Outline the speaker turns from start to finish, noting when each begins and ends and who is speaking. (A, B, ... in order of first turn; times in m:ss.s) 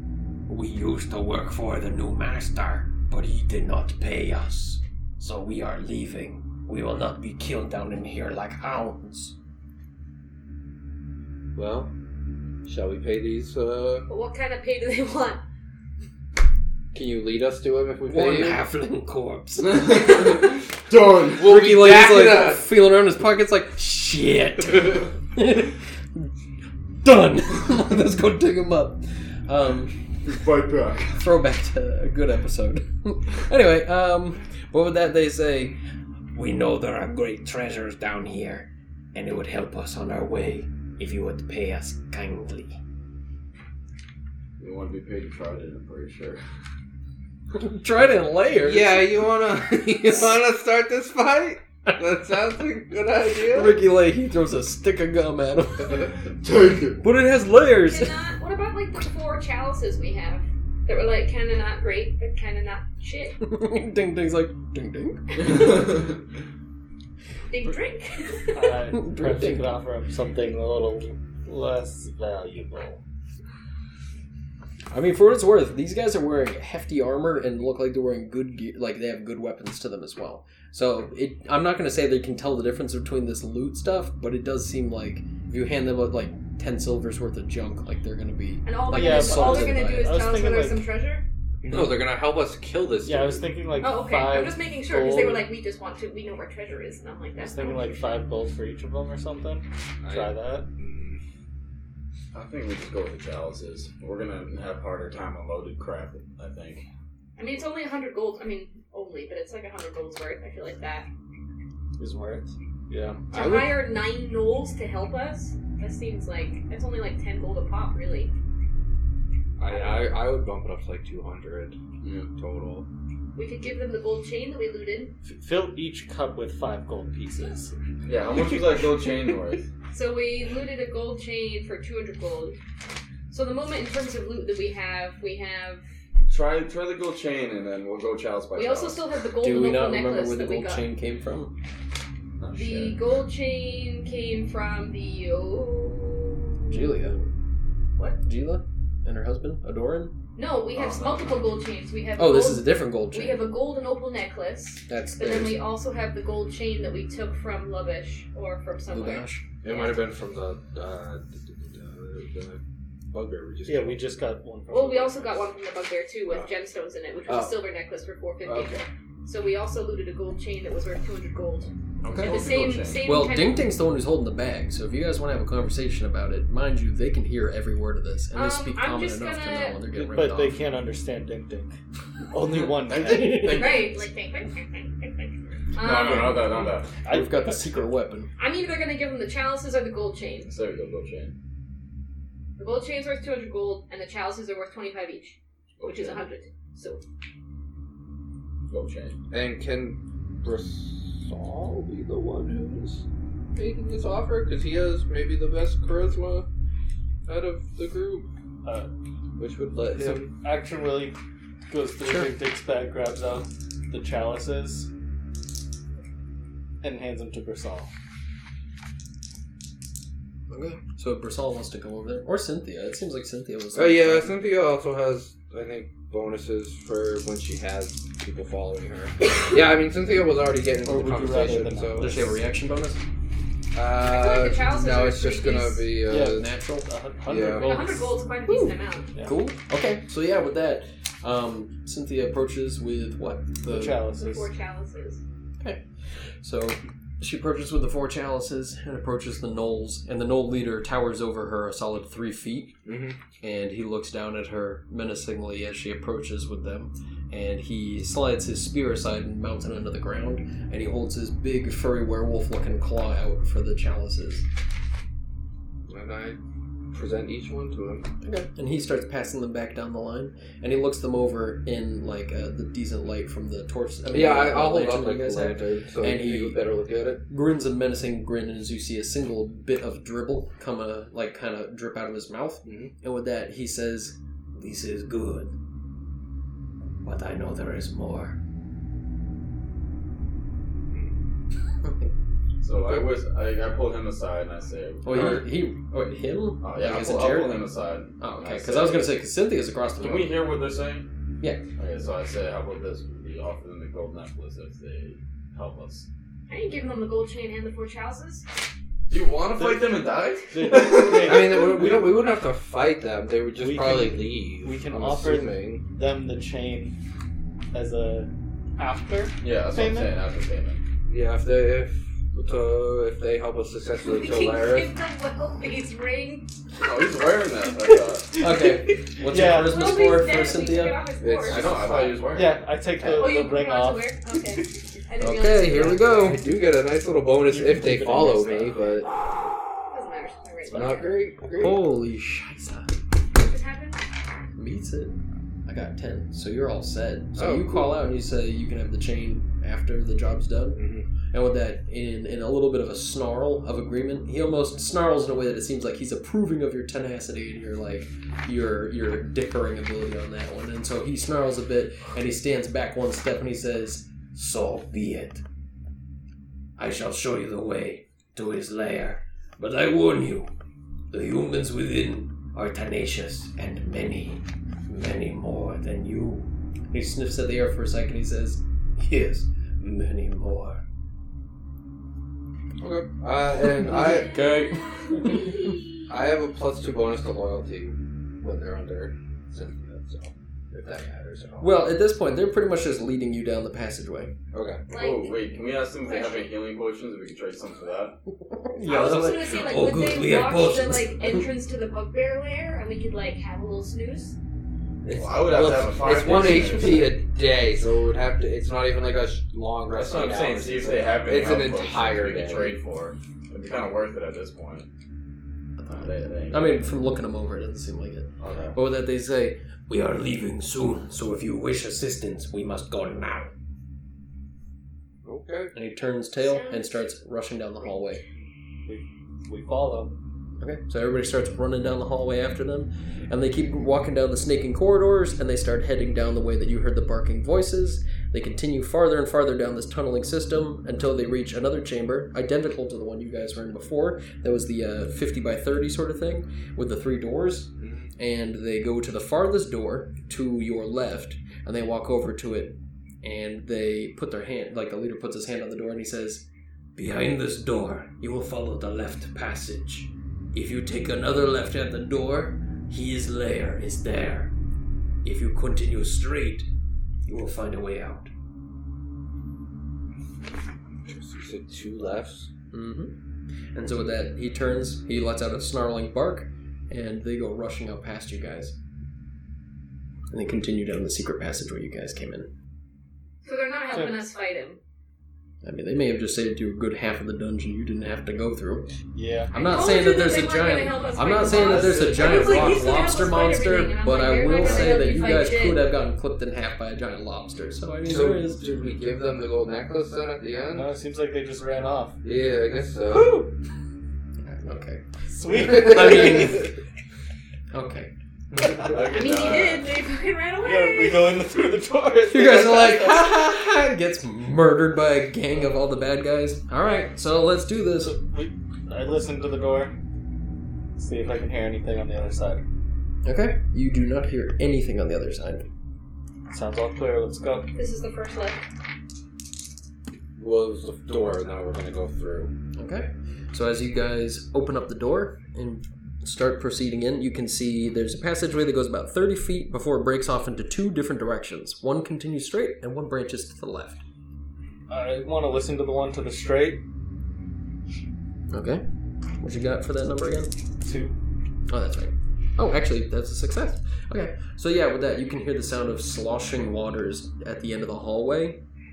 0:00.5-0:09.3 A
0:11.5-0:11.9 B
0:12.6-0:14.1 B
0:14.1-0:15.4 C
0:16.9-0:18.6 B
0:18.1-0:20.5 A
0:19.6-0:21.4 D
0:21.3-0:22.6 B
0:21.4-0:26.3 A
0:27.0-0:29.9 A
0:30.2-0:31.2 D
0:31.1-0:35.8 A
0:36.3-0:42.8 A
0:44.6-0:46.4 D
0:47.5-0:49.3 A
0:48.6-0:53.7 B
0:50.0-0:50.3 A
0:53.5-0:56.1 A
0:56.4-0:57.0 D
0:57.0-0:58.2 A
0:57.8-1:03.4 C
1:03.4-1:05.7 A
1:07.5-1:08.8 C
1:08.5-1:13.0 E
1:08.9-1:09.7 A
1:14.9-1:30.1 A
1:28.6-1:31.2 C
1:28.9-1:30.9 E
1:31.6-1:33.5 B
1:33.0-1:35.5 E
1:33.8-1:38.2 C
1:37.4-1:40.7 E
1:40.0-1:41.2 B
1:42.3-1:46.8 D
1:47.4-1:51.1 C
1:52.0-1:53.2 E
1:53.3-1:53.8 B
1:53.3-1:58.3 C
1:59.6-2:01.8 B
1:59.7-2:00.0 C
2:02.0-2:02.3 D
2:02.3-2:02.9 B
2:03.3-2:05.1 C
2:05.2-2:07.7 E
2:08.0-2:09.7 D
2:09.9-2:12.6 C
2:13.3-2:15.8 C
2:16.3-2:19.0 D
2:18.5-2:20.8 C
2:19.4-2:21.5 A
2:22.4-2:23.0 D
2:22.5-2:27.2 C
2:26.7-2:27.2 A
2:28.2-2:30.1 A
2:30.4-2:40.0 C
2:30.7-2:31.4 D
2:32.2-2:33.5 A
2:34.9-2:35.6 A
2:38.9-2:39.4 A
2:39.6-2:44.1 B
2:43.6-2:45.4 E
2:44.7-2:51.7 C
2:47.3-2:47.6 B
2:48.4-2:48.8 B
2:52.0-2:53.1 D
2:52.0-3:00.6 A
2:52.2-2:53.6 C
2:58.3-2:59.8 C
2:59.9-3:01.8 E
3:02.3-3:03.7 E
3:02.7-3:04.0 D
3:03.5-3:06.4 C
3:05.8-3:06.9 D
3:05.8-3:06.4 A
3:07.0-3:07.6 E
3:07.1-3:08.3 A
3:08.4-3:10.5 C
3:10.5-3:11.4 D
3:12.6-3:17.0 C
3:15.8-3:16.2 D
3:18.7-3:19.2 D
3:19.3-3:26.5 B
3:27.2-3:28.3 B
3:28.6-3:28.9 E
3:29.4-3:30.3 B
3:29.9-3:31.2 E
3:31.7-3:34.9 E
3:36.8-3:37.9 E
3:40.5-3:44.3 A
3:43.7-3:52.1 B
3:50.8-3:52.4 E
3:52.0-3:53.0 A
3:53.7-3:56.4 B
3:54.0-3:55.9 C
3:56.1-3:58.1 E
3:56.1-3:56.9 A
3:57.2-3:57.8 B
3:57.5-3:59.1 C
3:58.5-4:04.0 A
4:03.6-4:04.5 E
4:04.1-4:05.2 C
4:06.4-4:12.8 A
4:12.8-4:13.2 B
4:13.4-4:24.4 A
4:25.9-4:26.4 B
4:26.9-4:28.1 B
4:28.2-4:36.6 A
4:34.1-4:37.2 B
4:37.3-4:45.5 A
4:42.6-4:42.9 B
4:47.0-4:48.4 A
4:50.9-4:51.2 B
4:51.8-4:52.1 A
4:52.6-4:55.5 D
4:55.0-4:57.6 A
4:56.6-4:59.1 D
4:58.2-5:00.4 A
5:00.0-5:01.1 D
5:01.8-5:06.1 D
5:06.5-5:08.4 C
5:09.1-5:11.6 D
5:09.6-5:09.9 E
5:10.5-5:12.1 E
5:11.1-5:15.8 B
5:13.6-5:17.0 E
5:17.7-5:20.1 E
5:19.4-5:20.8 D
5:21.1-5:24.9 B
5:24.0-5:26.5 C
5:26.8-5:28.3 D
5:28.3-5:29.8 E
5:28.4-5:31.0 A
5:29.6-5:31.7 C
5:31.2-5:32.3 B
5:31.5-5:32.5 D
5:32.3-5:34.1 E
5:33.0-5:33.3 A
5:33.2-5:36.3 C
5:35.2-5:36.4 A
5:36.0-5:39.1 B
5:37.5-5:38.9 E
5:39.9-5:41.2 C
5:40.7-5:41.9 B
5:41.6-5:42.9 A
5:43.3-5:44.0 C
5:44.5-6:05.4 A
5:47.4-5:47.9 B
5:50.8-5:51.0 B
6:06.8-6:10.5 A
6:11.1-6:20.8 A
6:22.8-6:24.4 B
6:23.8-6:25.7 A
6:23.9-6:25.9 C
6:26.1-6:31.8 B
6:31.6-6:34.3 A
6:34.5-6:34.8 B
6:34.9-6:35.4 C
6:34.9-6:38.2 D
6:36.0-6:36.5 C
6:38.4-6:41.5 A
6:38.8-6:44.3 C
6:39.3-6:39.6 B
6:45.0-6:47.0 A
6:45.1-6:47.1 D
6:45.5-6:52.8 B
6:49.9-6:54.9 D
6:55.8-6:56.8 D
6:56.5-7:03.5 A
6:58.4-6:58.8 D
7:05.2-7:05.7 B
7:05.7-7:08.2 A
7:06.4-7:07.0 C
7:08.8-7:10.1 E
7:10.6-7:44.5 A
7:27.8-7:28.1 B
7:45.2-7:46.7 A
7:47.2-7:48.3 A
7:51.0-7:52.5 B
7:52.7-7:53.1 A
7:53.7-7:58.8 A
8:00.3-8:02.5 A
8:03.4-8:04.8 C
8:05.6-8:08.9 A
8:09.1-8:09.5 E
8:09.5-8:18.6 A
8:09.5-8:15.9 C
8:11.4-8:12.9 E
8:14.8-8:15.1 E
8:18.0-8:20.9 B
8:20.7-8:22.2 E
8:22.2-8:23.4 B
8:23.1-8:23.5 E
8:24.4-8:25.0 A
8:25.3-8:26.5 E
8:25.6-8:26.8 A
8:27.7-8:28.1 A
8:28.7-8:29.9 D
8:29.0-8:31.4 C
8:30.6-8:33.3 E
8:32.3-8:38.2 A
8:38.0-8:39.9 E
8:41.0-8:42.6 E
8:43.2-8:45.6 A
8:46.5-8:47.7 E
8:47.7-8:48.6 C
8:50.4-8:52.5 B
8:52.8-9:04.0 A
9:04.9-9:06.8 E
9:08.5-9:08.8 A
9:09.4-9:10.5 A
9:10.8-9:11.1 E
9:11.7-9:18.6 A